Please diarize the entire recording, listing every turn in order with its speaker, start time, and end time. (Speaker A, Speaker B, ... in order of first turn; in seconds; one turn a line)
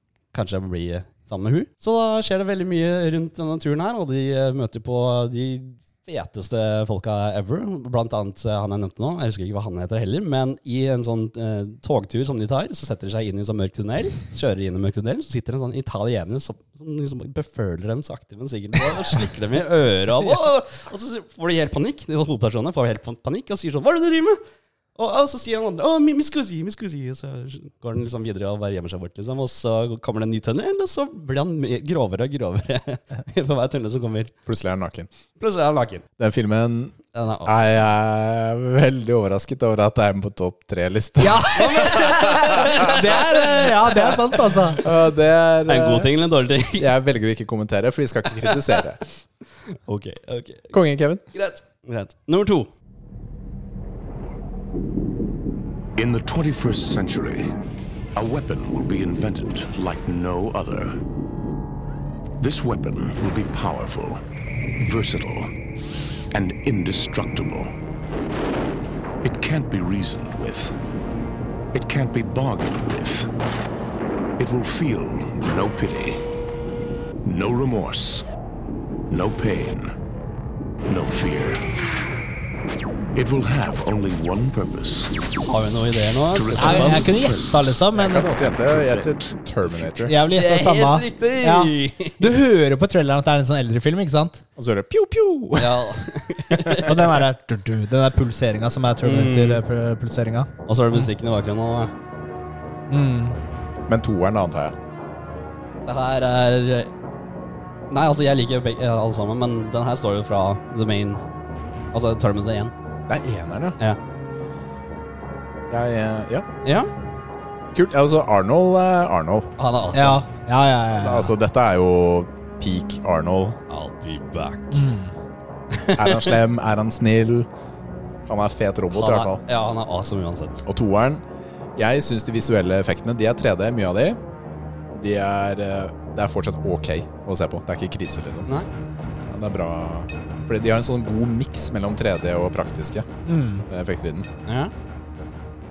Speaker A: 0.3-24.4
Speaker A: 25.0-34.3
Speaker B: 34.5-35.1
Speaker A: 35.4-36.0
Speaker B: 36.2-42.9
Speaker A: 37.1-37.7
Speaker C: 41.2-44.8
Speaker A: 41.6-44.1
Speaker B: 44.8-46.1
Speaker A: 45.7-46.9
Speaker B: 46.8-49.0
Speaker A: 48.4-48.8
Speaker A: 49.9-50.7
Speaker B: 50.7-51.2
Speaker A: 51.3-52.7
Speaker D: 56.0-57.5
Speaker D: 58.2-61.0
Speaker D: 62.4-64.2
Speaker D: 64.8-65.5
Speaker D: 66.3-67.7
Speaker D: 69.2-70.7
Speaker D: 71.7-73.3
Speaker D: 74.4-76.2
Speaker D: 77.2-78.2
Speaker D: 79.1-79.9
Speaker D: 80.9-81.6
Speaker D: 83.2-85.2
Speaker A: 85.5-87.2
Speaker D: 86.3-87.8
Speaker C: 86.6-88.3
Speaker B: 87.9-90.2
Speaker D: 88.6-89.3
Speaker C: 90.0-94.4
Speaker A: 90.3-92.2
Speaker B: 94.6-95.7
Speaker A: 95.6-97.0
Speaker C: 96.9-101.1
Speaker A: 99.0-99.6
Speaker A: 100.7-101.9
Speaker C: 102.9-103.4
Speaker B: 103.9-104.8
Speaker A: 105.8-106.9
Speaker A: 107.9-111.2
Speaker A: 111.9-112.7
Speaker B: 113.1-113.8
Speaker B: 115.7-116.5
Speaker A: 116.7-116.9
Speaker B: 117.7-119.5
Speaker A: 119.6-120.2
Speaker C: 120.0-121.3
Speaker B: 121.0-123.6
Speaker A: 123.7-124.8
Speaker C: 124.7-125.1
Speaker A: 125.7-126.4
Speaker B: 126.0-127.5
Speaker B: 128.3-129.4
Speaker A: 128.9-130.6
Speaker B: 130.7-131.2
Speaker B: 131.8-134.2
Speaker B: 134.9-138.5
Speaker B: 139.3-143.1
Speaker C: 143.3-143.7
Speaker B: 143.7-144.3
Speaker A: 144.5-144.7